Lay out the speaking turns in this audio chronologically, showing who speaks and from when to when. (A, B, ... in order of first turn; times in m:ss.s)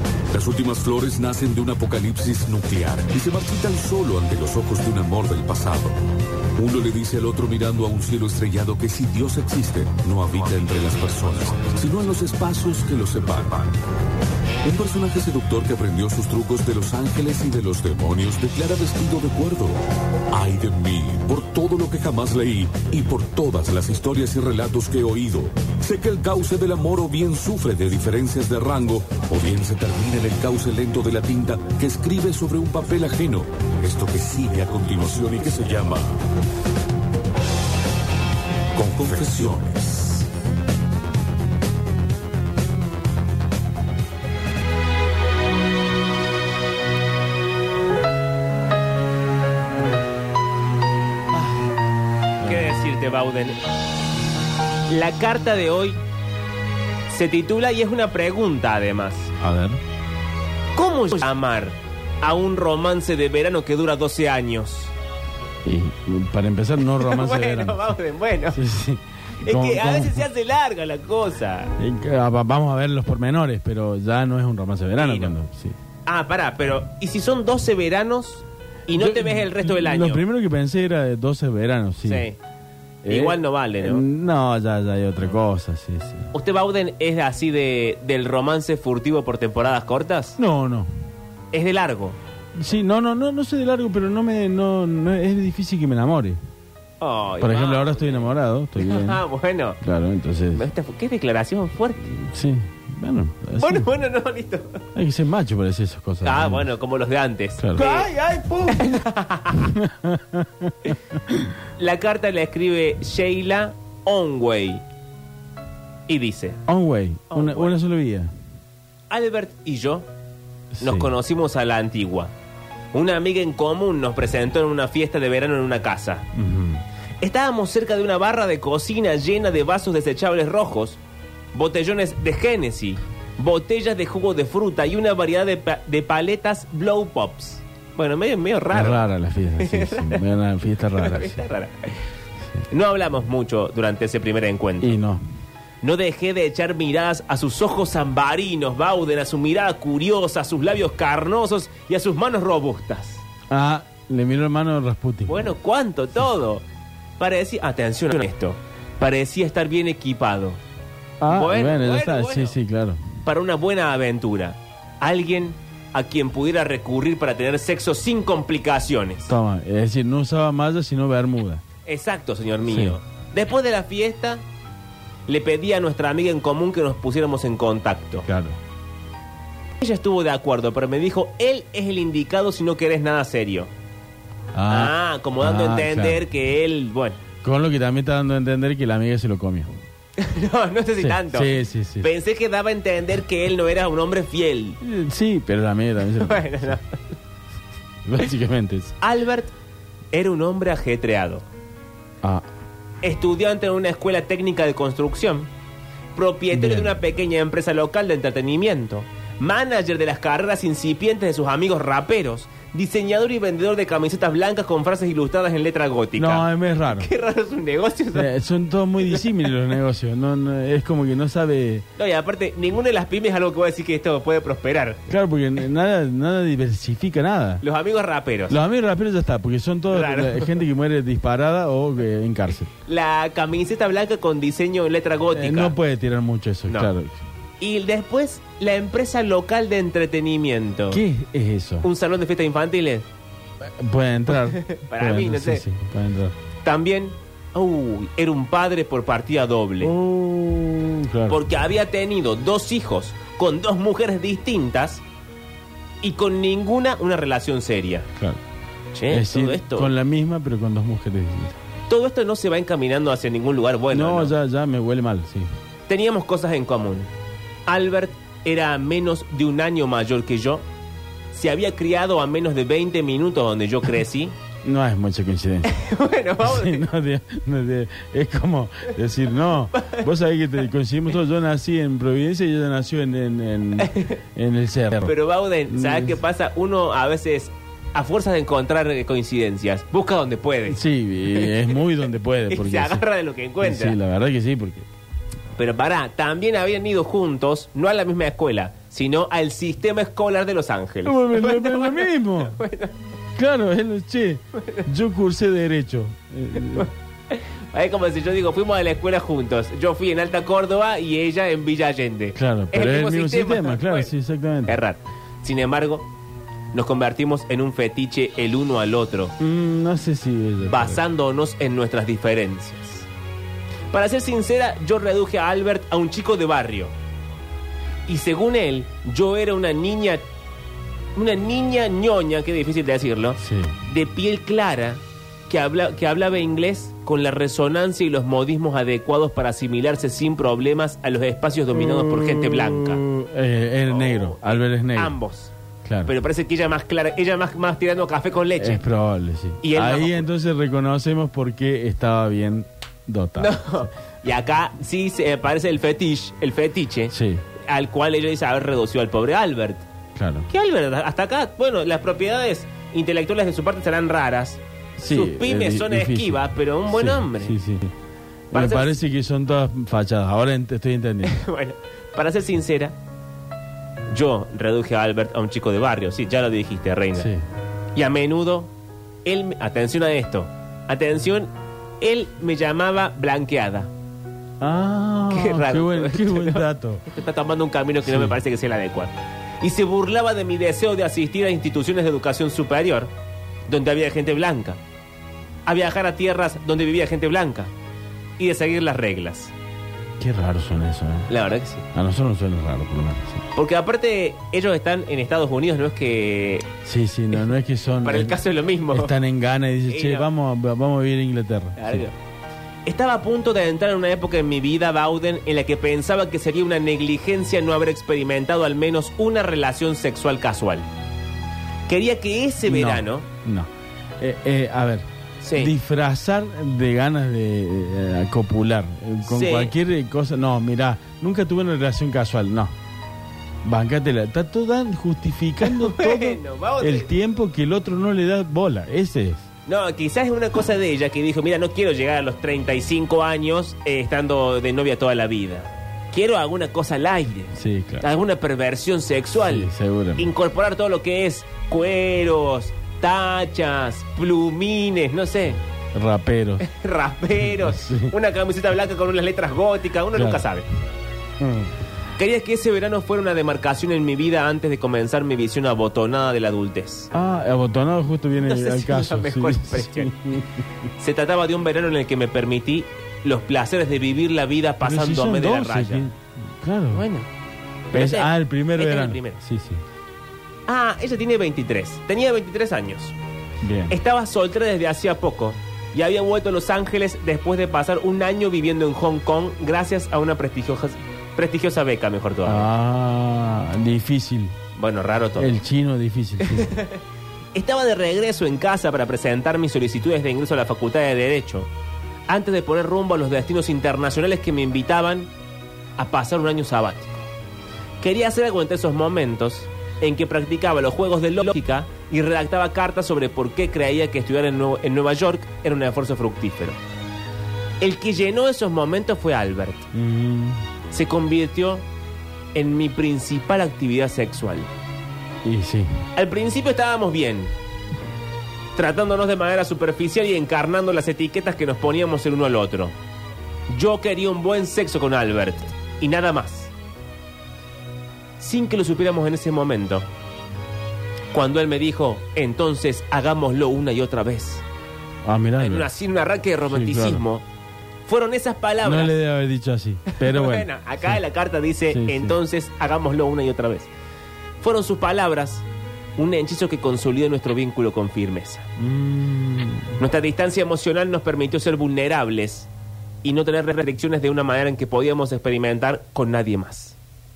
0:00.3-0:06.0 A
0:06.6-0:13.8 A
0:14.6-0:19.8 A
0:20.3-0:36.2 A
0:38.8-0:40.3 A
0:52.4-0:52.8 B
0:52.4-0:53.6 C
0:54.9-0:56.0 C
0:57.1-0:59.3 C
0:59.4-0:59.8 B
1:00.8-1:04.9 C
1:05.6-1:08.0 B
1:06.9-1:08.6 C
1:08.5-1:10.3 B
1:09.4-1:11.8 C
1:11.8-1:15.8 B
1:15.0-1:15.4 C
1:16.1-1:20.2 C
1:18.9-1:22.3 B
1:22.0-1:22.4 C
1:23.0-1:26.3 B
1:23.1-1:24.0 C
1:26.3-1:30.4 C
1:30.4-1:30.9 B
1:31.5-1:32.2 C
1:32.6-1:36.4 B
1:37.0-1:39.8 C
1:37.4-1:39.2 B
1:39.8-1:40.7 B
1:40.5-1:42.0 C
1:42.0-1:43.9 B
1:43.6-1:44.8 C
1:45.0-1:46.7 B
1:46.2-1:48.1 C
1:47.6-1:49.0 B
1:48.7-1:49.7 C
1:49.5-1:51.5 B
1:51.8-1:54.8 C
1:56.1-1:56.6 C
1:56.7-1:58.3 B
1:57.3-1:57.8 C
1:59.1-2:00.1 C
2:00.7-2:01.1 B
2:00.8-2:02.3 C
2:02.9-2:06.3 C
2:06.4-2:06.8 B
2:07.2-2:11.0 C
2:11.5-2:20.3 C
2:18.7-2:21.4 B
2:20.9-2:22.0 C
2:22.7-2:25.0 C
2:24.8-2:25.2 B
2:25.8-2:33.2 C
2:33.5-2:35.5 B
2:35.3-2:36.6 C
2:37.2-2:40.6 C
2:41.2-2:43.0 B
2:41.2-2:42.6 C
2:43.2-2:49.3 C
2:49.3-2:51.6 B
2:51.9-2:54.4 C
2:52.6-2:53.0 B
2:55.3-2:58.3 C
2:58.3-2:58.6 B
2:59.8-3:03.7 C
3:04.5-3:06.2 B
3:04.7-3:07.2 C
3:07.4-3:09.7 B
3:10.2-3:14.8 C
3:11.0-3:12.1 B
3:14.8-3:16.8 B
3:16.1-3:17.0 C
3:18.0-3:19.0 B
3:19.0-3:19.5 C
3:20.1-3:21.4 C
3:23.0-3:25.5 C
3:26.1-3:38.4 C
3:26.5-3:27.0 B
3:36.2-3:37.1 B
3:38.1-3:41.9 B
3:39.0-3:39.4 C
3:42.0-3:45.0 C
3:45.1-3:47.6 B
3:47.6-3:48.6 C
3:48.5-3:52.7 B
3:49.9-3:50.6 C
3:52.8-3:55.8 C
3:55.3-3:57.2 B
3:57.6-4:01.0 C
4:00.9-4:01.9 B
4:01.8-4:03.1 C
4:03.6-4:06.4 B
4:04.4-4:05.6 C
4:06.6-4:10.0 C
4:09.8-4:11.4 B
4:11.3-4:15.0 C
4:16.0-4:18.1 C
4:18.9-4:19.9 C
4:19.1-4:21.6 B
4:21.9-4:24.4 C
4:23.9-4:25.5 B
4:25.9-4:27.1 C
4:27.7-4:30.6 C
4:31.3-4:34.3 C
4:34.6-4:35.7 B
4:35.6-4:36.9 C
4:36.4-4:45.2 B
4:39.8-4:40.0 C
4:43.8-4:44.2 C
4:45.0-4:51.7 C
4:45.7-4:46.2 B
4:50.7-4:53.0 B
4:52.5-4:54.0 C
4:53.6-4:54.9 B
4:55.6-5:03.0 C
5:01.0-5:02.6 B
5:03.4-5:06.9 B
5:06.6-5:14.1 C
5:12.4-5:14.8 B
5:14.6-5:16.1 C
5:16.7-5:19.4 C
5:19.4-5:21.0 B
5:20.7-5:23.1 C
5:23.9-5:26.9 C
5:28.1-5:30.2 C
5:31.2-5:43.0 C
5:33.4-5:33.8 B
5:41.7-5:45.2 B
5:43.9-5:45.5 C
5:45.8-5:46.1 B
5:46.0-5:48.8 C
5:48.6-5:53.9 B
5:49.6-5:50.3 C
5:53.4-5:57.1 C
5:57.1-5:57.4 B
5:57.7-5:59.9 C
6:00.2-6:00.5 B
6:00.5-6:07.6 C
6:05.0-6:07.9 B
6:08.5-6:09.0 C
6:08.5-6:11.4 B
6:11.2-6:13.0 C
6:14.1-6:17.3 C
6:17.2-6:17.4 B
6:17.9-6:18.7 C
6:19.2-6:23.9 C
6:24.6-6:27.0 B
6:25.3-6:33.1 C
6:28.0-6:28.4 B
6:33.7-6:34.8 C
6:35.7-6:37.7 C
6:38.4-6:39.5 C
6:40.2-6:41.3 B
6:41.3-6:41.8 C
6:41.9-6:43.4 B
6:43.5-6:46.7 C
6:46.8-6:52.1 B
6:48.0-6:49.2 C
6:49.9-6:50.3 C
6:51.8-6:52.2 C
6:52.9-7:00.9 C
7:01.9-7:03.3 C
7:02.7-7:12.7 B
7:05.4-7:05.8 C
7:09.2-7:09.7 C
7:13.6-7:19.5 B
7:15.6-7:17.1 C
7:19.7-7:35.6 C
7:27.5-7:28.1 B
7:29.4-7:30.3 B
7:36.0-7:36.6 B
7:36.6-7:40.7 C
7:37.4-7:38.1 B
7:40.1-7:40.4 B
7:41.4-7:41.7 B
7:42.2-7:47.1 C
7:47.1-7:50.5 B
7:48.4-7:50.2 C
7:51.0-7:56.1 C
7:54.8-7:57.1 B
7:56.9-7:57.3 C
7:57.9-7:59.4 C
7:57.9-7:59.8 B
8:00.7-8:03.2 C
8:03.6-8:04.0 B
8:03.9-8:12.7 C
8:12.4-8:14.5 B
8:14.8-8:15.6 C
8:15.4-8:16.8 B
8:16.4-8:17.0 C
8:17.5-8:21.7 C
8:22.3-8:25.3 C
8:26.0-8:27.3 C
8:28.0-8:36.8 C
8:37.8-8:39.9 C
8:39.9-8:40.6 B
8:40.9-8:41.8 C
8:42.5-8:44.7 C
8:45.4-8:46.0 B
8:46.2-8:47.5 C
8:48.8-8:53.0 C
8:53.7-8:56.7 C
8:58.4-9:00.1 C
9:01.3-9:04.6 C
9:05.2-9:05.9 B
9:05.6-9:07.4 C
9:06.7-9:07.2 B
9:08.1-9:09.2 C
9:08.8-9:11.2 B
9:10.1-9:13.9 C
9:11.9-9:12.4 B
9:14.6-9:15.6 C
9:16.2-9:18.7 C
9:18.8-9:20.0 B
9:20.0-9:22.7 C
9:23.2-9:27.0 C